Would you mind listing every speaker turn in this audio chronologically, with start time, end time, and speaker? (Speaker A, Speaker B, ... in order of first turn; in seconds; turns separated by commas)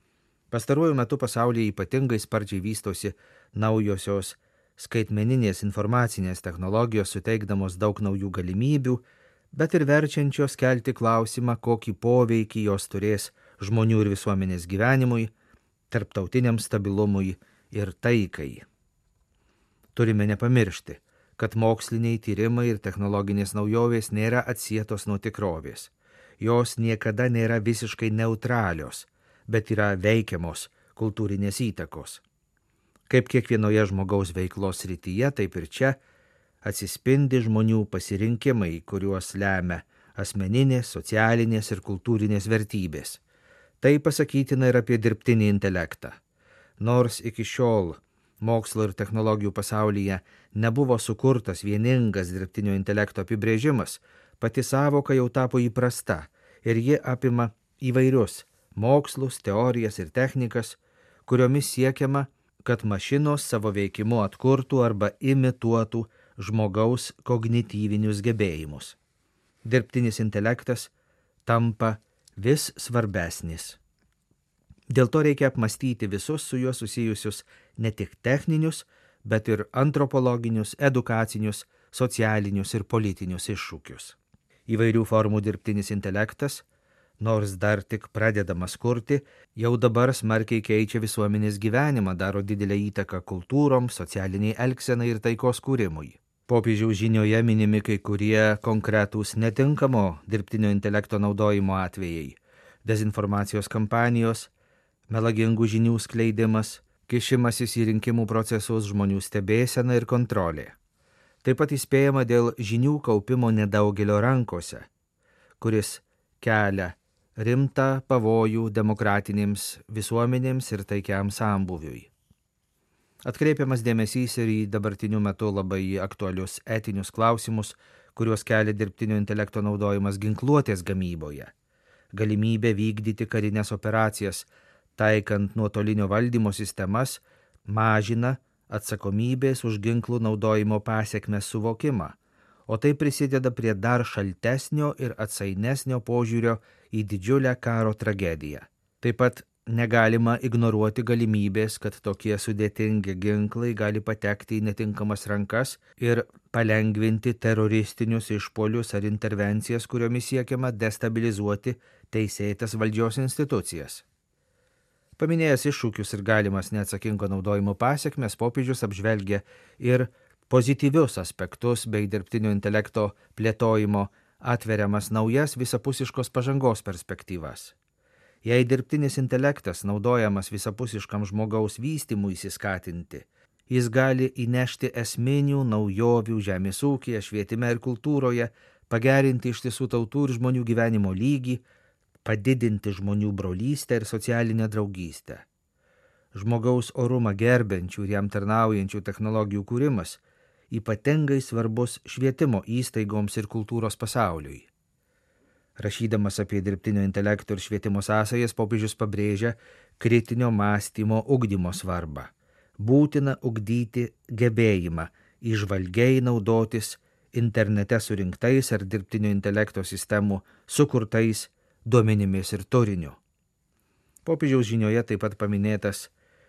Speaker A: 0.5-15.3, Speaker A: 15.9-18.6, Speaker A: 19.9-32.2, Speaker A: 33.1-36.0, Speaker A: 36.6-43.2, Speaker A: 43.8-46.2, Speaker A: 46.8-69.0, Speaker A: 69.6-70.9, Speaker A: 71.5-73.8, Speaker A: 74.9-84.2, Speaker A: 84.7-86.6, Speaker A: 87.2-104.5, Speaker A: 105.1-110.7, Speaker A: 111.4-114.9, Speaker A: 115.6-122.1, Speaker A: 123.2-131.5, Speaker A: 132.1-142.2, Speaker A: 142.7-164.0, Speaker A: 165.2-177.8, Speaker A: 178.4-191.6, Speaker A: 192.2-195.4, Speaker A: 196.3-204.7, Speaker A: 205.8-223.2, Speaker A: 224.2-226.1